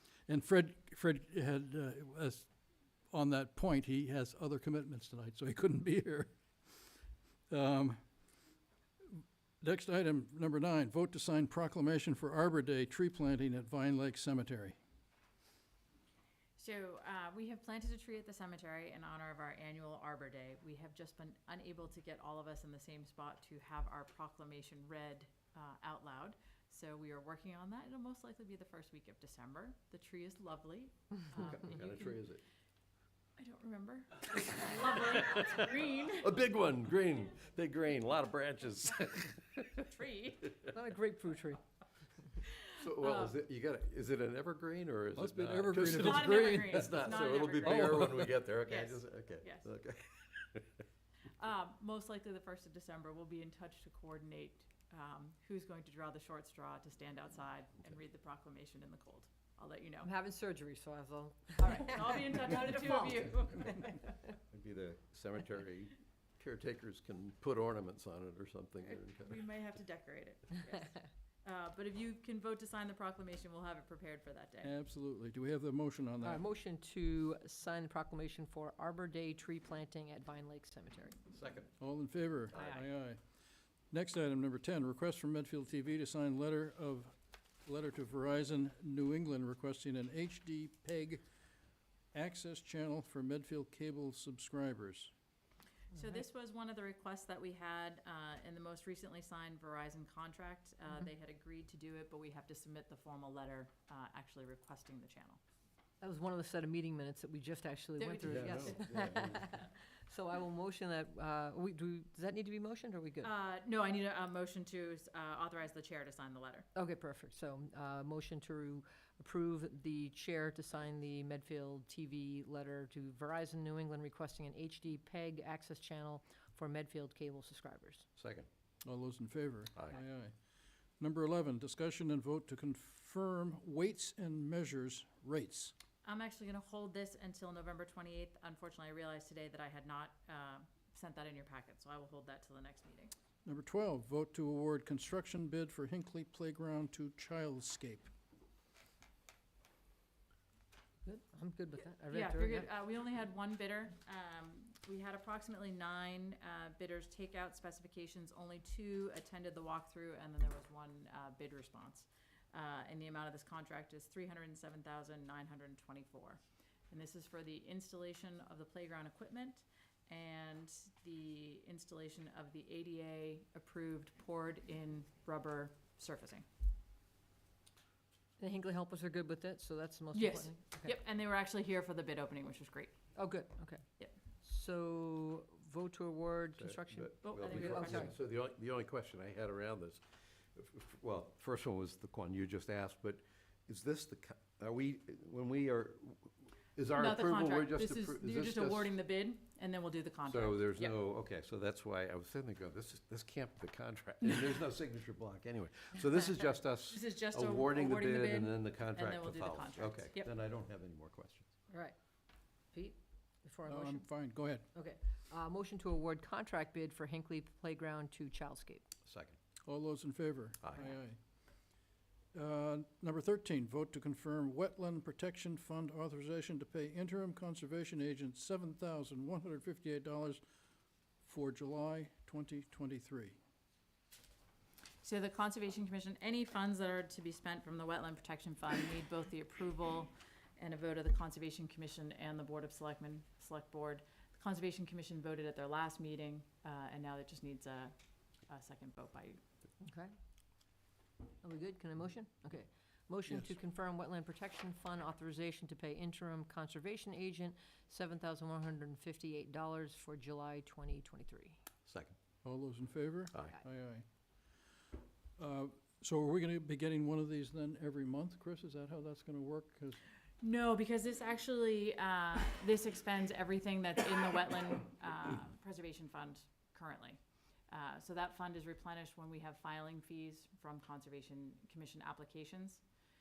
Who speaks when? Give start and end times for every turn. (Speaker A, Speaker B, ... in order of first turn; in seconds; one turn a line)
Speaker A: 0.3-2.5
Speaker A: 3.1-6.4
Speaker A: 7.5-8.1
Speaker A: 9.1-14.8
Speaker B: 16.6-32.1
Speaker C: 31.4-32.4
Speaker B: 33.4-36.3
Speaker C: 35.2-39.9
Speaker B: 39.8-40.6
Speaker D: 40.7-41.6
Speaker B: 42.4-43.3
Speaker C: 42.7-50.7
Speaker A: 45.2-48.4
Speaker B: 45.8-49.7
Speaker B: 51.4-60.1
Speaker D: 60.0-63.6
Speaker B: 61.6-64.2
Speaker C: 64.5-69.4
Speaker B: 68.8-74.7
Speaker A: 74.6-76.4
Speaker D: 76.2-81.2
Speaker C: 81.3-81.7
Speaker A: 81.8-83.2
Speaker B: 82.5-82.8
Speaker A: 83.9-91.2
Speaker A: 92.1-95.1
Speaker B: 95.9-105.4
Speaker D: 106.0-113.3
Speaker B: 108.0-108.8
Speaker C: 108.3-109.5
Speaker B: 113.2-116.7
Speaker D: 116.8-128.1
Speaker C: 128.2-128.5
Speaker A: 128.8-130.3
Speaker A: 131.0-135.7
Speaker B: 136.0-143.1
Speaker A: 143.4-148.1
Speaker D: 151.0-152.7
Speaker B: 152.1-176.4
Speaker D: 178.4-181.0
Speaker B: 180.1-182.9
Speaker D: 183.2-183.8
Speaker D: 184.4-188.1
Speaker C: 186.6-190.0
Speaker B: 187.2-188.2
Speaker C: 190.5-198.9
Speaker B: 196.9-200.9
Speaker C: 200.3-211.5
Speaker B: 206.9-210.3
Speaker D: 211.7-212.0
Speaker D: 212.7-214.1
Speaker A: 213.7-214.7
Speaker D: 214.7-218.9
Speaker C: 219.1-219.4
Speaker A: 219.7-221.2
Speaker C: 220.6-220.9
Speaker A: 222.3-230.4
Speaker A: 231.2-233.4
Speaker B: 235.0-247.9
Speaker B: 248.5-249.4
Speaker D: 249.8-250.1
Speaker D: 251.4-261.6
Speaker A: 253.3-253.5
Speaker C: 261.9-262.2
Speaker A: 262.4-264.1
Speaker A: 265.4-270.0
Speaker B: 270.4-282.8